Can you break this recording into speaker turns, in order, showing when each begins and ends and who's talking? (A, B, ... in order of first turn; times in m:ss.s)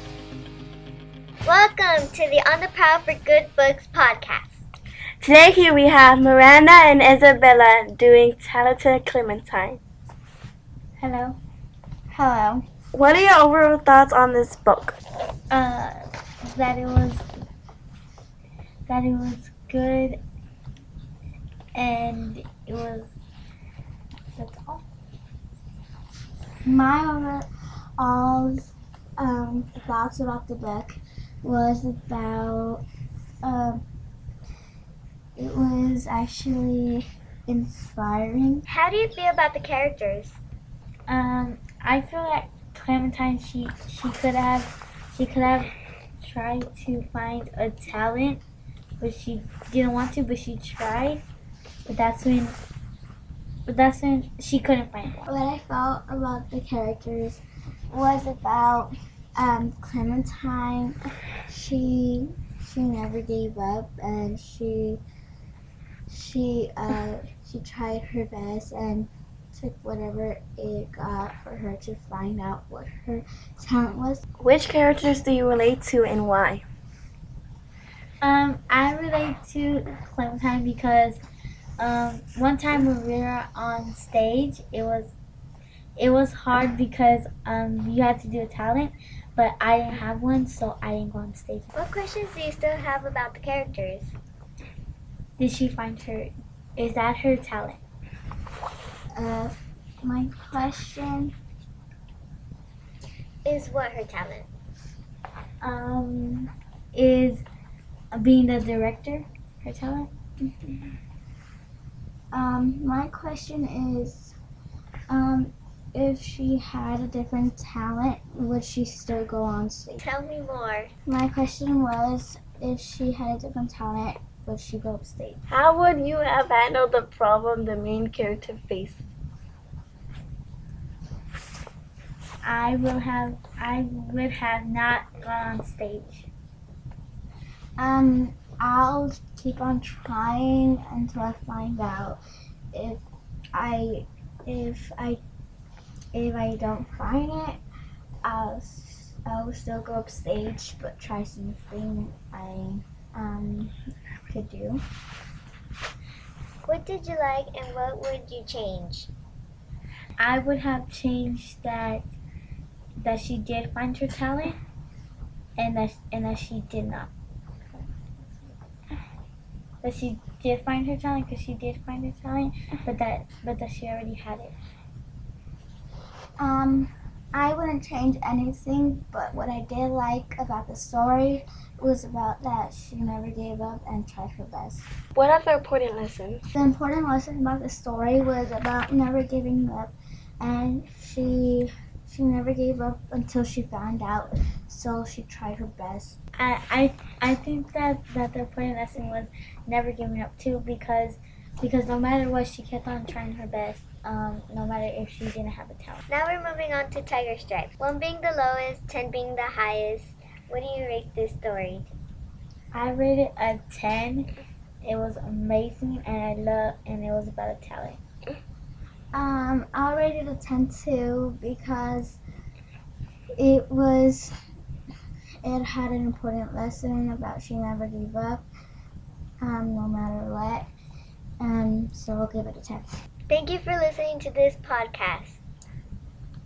0:01.4-0:04.6 A
0:05.2-0:09.8 B
0:11.0-0:11.4 C
0:12.1-0:12.6 D
0:12.9-0:15.0 B
0:15.5-0:17.2 C
0:18.9-0:20.2 C
0:21.7-0:23.1 C
0:24.3-0:24.8 C
0:26.6-0:27.5 D
0:28.0-0:32.8 D
0:33.4-0:33.8 D
0:35.4-0:38.6 D
0:38.7-0:40.4 A
0:41.1-0:45.7 C
0:46.2-0:48.4 C
0:49.0-0:51.2 C
0:51.8-0:52.6 C
0:53.6-0:55.3 C
0:55.2-1:01.0 D
1:01.5-1:05.0 D
1:06.1-1:14.2 D
1:14.4-1:16.6 B
1:18.2-1:21.2 C
1:21.8-1:25.1 C
1:26.0-1:31.7 C
1:31.8-1:34.1 A
1:35.4-1:37.8 C
1:39.1-1:41.3 D
1:43.4-1:44.5 A
1:45.6-1:47.4 C
1:48.1-1:50.1 C
1:52.3-1:54.4 D
1:55.1-2:00.0 D
2:00.0-2:00.9 A
2:01.0-2:05.4 D
2:05.5-2:09.0 B
2:12.4-2:16.3 C
2:17.8-2:22.2 D
2:22.7-2:23.0 D
2:23.5-2:25.2 D
2:26.1-2:27.6 D
2:28.2-2:33.7 D
2:34.3-2:34.8 D
2:36.7-2:39.1 A
2:40.2-2:42.0 C
2:43.0-2:44.6 C
2:45.6-2:47.1 C
2:49.8-2:54.5 C
2:56.4-3:04.9 D
3:05.1-3:06.4 B
3:06.6-3:16.2 D
3:16.4-3:26.0 C
3:26.1-3:31.9 A
3:32.7-3:34.3 C
3:34.8-3:38.0 C
3:39.1-3:42.2 D
3:43.4-3:44.3 D
3:45.4-3:48.4 D
3:49.4-3:50.7 D
3:51.4-3:53.0 D
3:53.3-3:55.4 A